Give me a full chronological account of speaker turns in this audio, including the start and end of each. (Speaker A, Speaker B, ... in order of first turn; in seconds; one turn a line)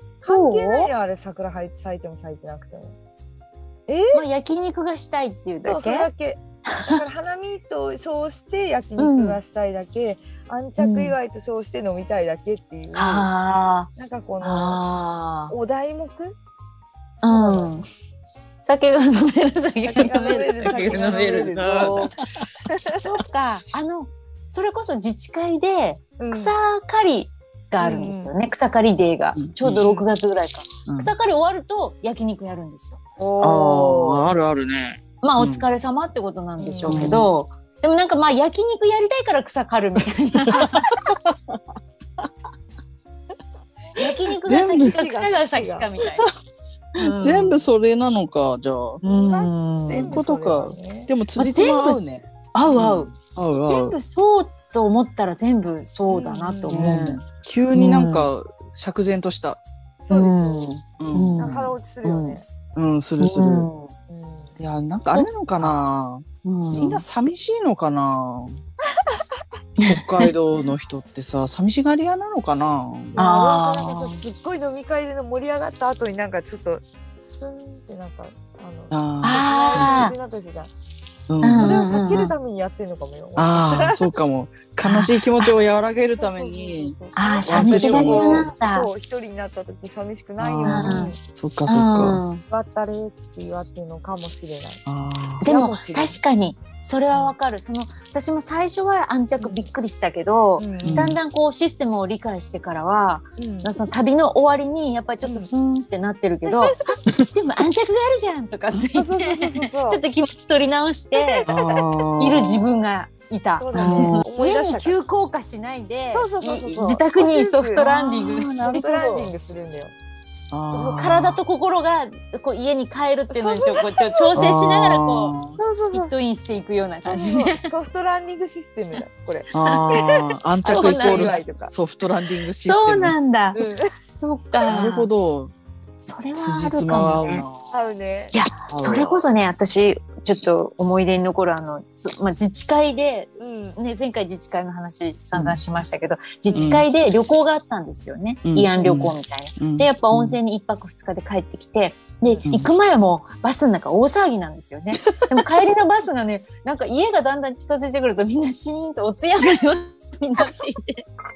Speaker A: 0.2-3.0
Speaker B: 0.2-0.9
Speaker A: 3.9-4.2
Speaker B: 4.1-6.1
Speaker A: 5.6-13.3
Speaker B: 6.7-7.0
Speaker B: 9.0-9.4
Speaker B: 10.8-11.2
Speaker B: 12.9-13.9
Speaker A: 13.9-14.8
Speaker B: 14.4-15.5
Speaker A: 15.5-16.4
Speaker B: 17.2-17.9
Speaker A: 17.2-17.7
Speaker B: 18.6-22.1
Speaker A: 19.8-22.1
Speaker A: 22.7-23.0
Speaker B: 23.0-33.0
Speaker A: 26.2-26.5
Speaker A: 27.8-28.3
Speaker C: 29.4-29.8
Speaker A: 29.8-30.1
Speaker C: 30.9-31.1
Speaker A: 33.2-34.2
Speaker C: 33.4-35.7
Speaker B: 35.2-40.8
Speaker A: 36.6-37.2
Speaker C: 36.9-37.3
Speaker C: 40.6-41.6
Speaker B: 44.0-46.3
Speaker C: 44.3-45.0
Speaker A: 44.8-45.9
Speaker B: 47.0-47.7
Speaker C: 47.0-49.0
Speaker A: 49.0-51.1
Speaker B: 49.0-50.2
Speaker C: 49.9-54.0
Speaker B: 51.4-53.1
Speaker B: 53.6-58.3
Speaker A: 56.1-57.0
Speaker C: 56.7-59.6
Speaker A: 60.0-60.7
Speaker B: 60.1-62.4
Speaker C: 61.0-61.4
Speaker A: 61.4-62.4
Speaker C: 62.7-63.7
Speaker B: 63.2-63.9
Speaker A: 64.1-64.5
Speaker C: 64.6-68.6
Speaker B: 65.1-65.8
Speaker B: 66.4-67.0
Speaker B: 69.8-70.3
Speaker C: 69.8-73.2
Speaker A: 73.2-80.7
Speaker B: 73.2-74.2
Speaker C: 78.9-80.1
Speaker B: 79.2-80.1
Speaker C: 81.3-82.3
Speaker B: 81.4-82.3
Speaker A: 81.5-84.0
Speaker C: 83.3-88.5
Speaker B: 84.8-85.5
Speaker A: 86.1-91.2
Speaker B: 87.1-88.9
Speaker C: 90.4-92.2
Speaker B: 90.7-91.1
Speaker B: 91.7-92.4
Speaker A: 92.5-94.8
Speaker C: 94.8-95.4
Speaker A: 95.4-96.2
Speaker B: 95.4-111.5
Speaker A: 99.4-99.7
Speaker A: 100.6-101.1
Speaker C: 100.8-101.2
Speaker A: 103.4-103.7
Speaker A: 105.2-105.5
Speaker A: 106.5-106.9
Speaker A: 108.9-110.0
Speaker A: 111.1-111.8
Speaker C: 111.5-112.7
Speaker B: 112.2-118.8
Speaker A: 113.6-115.0
Speaker C: 113.8-114.2
Speaker A: 116.1-119.9
Speaker C: 118.1-119.3
Speaker C: 120.5-121.4
Speaker B: 120.7-125.3
Speaker A: 123.3-124.6
Speaker C: 124.3-125.6
Speaker A: 125.6-126.1
Speaker B: 125.9-127.7
Speaker A: 127.0-131.7
Speaker C: 129.5-133.2
Speaker B: 130.6-131.4
Speaker B: 132.6-133.6
Speaker A: 133.5-133.9
Speaker B: 134.1-135.1
Speaker C: 134.6-135.5
Speaker B: 136.0-137.4
Speaker C: 136.3-137.8
Speaker A: 137.7-138.3
Speaker B: 138.3-161.1
Speaker C: 138.7-139.2
Speaker A: 143.4-143.8
Speaker C: 145.3-145.6
Speaker C: 146.5-146.9
Speaker C: 148.4-150.4
Speaker C: 152.4-152.7
Speaker C: 155.0-155.4